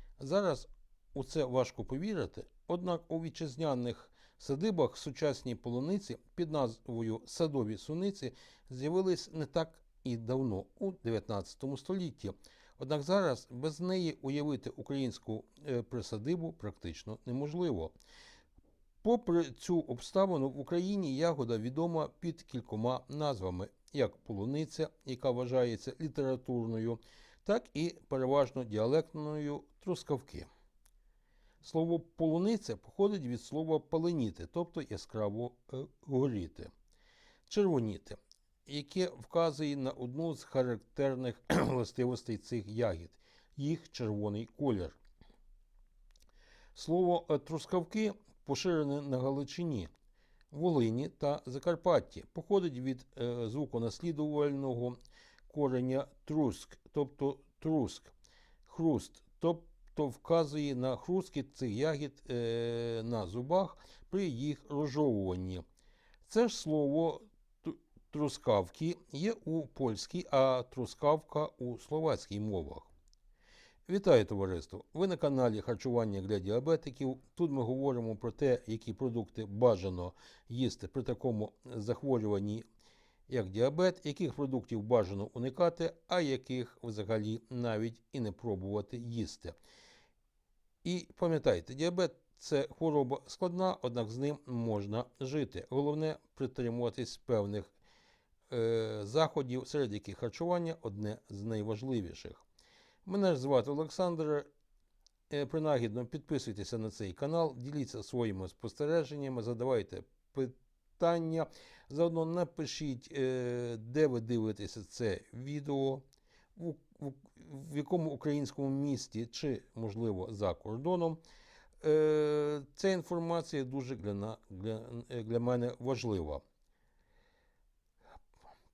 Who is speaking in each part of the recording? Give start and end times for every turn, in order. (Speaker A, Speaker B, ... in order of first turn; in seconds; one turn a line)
Speaker A: 0.2-17.9
Speaker A: 19.0-30.5
Speaker A: 31.6-36.7
Speaker A: 37.5-45.0
Speaker A: 46.7-49.9
Speaker A: 50.5-55.0
Speaker A: 55.5-58.1
Speaker A: 58.6-65.6
Speaker A: 66.2-72.9
Speaker A: 73.9-82.6
Speaker A: 83.3-89.5
Speaker A: 90.8-97.7
Speaker A: 98.5-102.4
Speaker A: 103.0-104.5
Speaker A: 105.3-116.0
Speaker A: 116.5-121.2
Speaker A: 121.8-126.4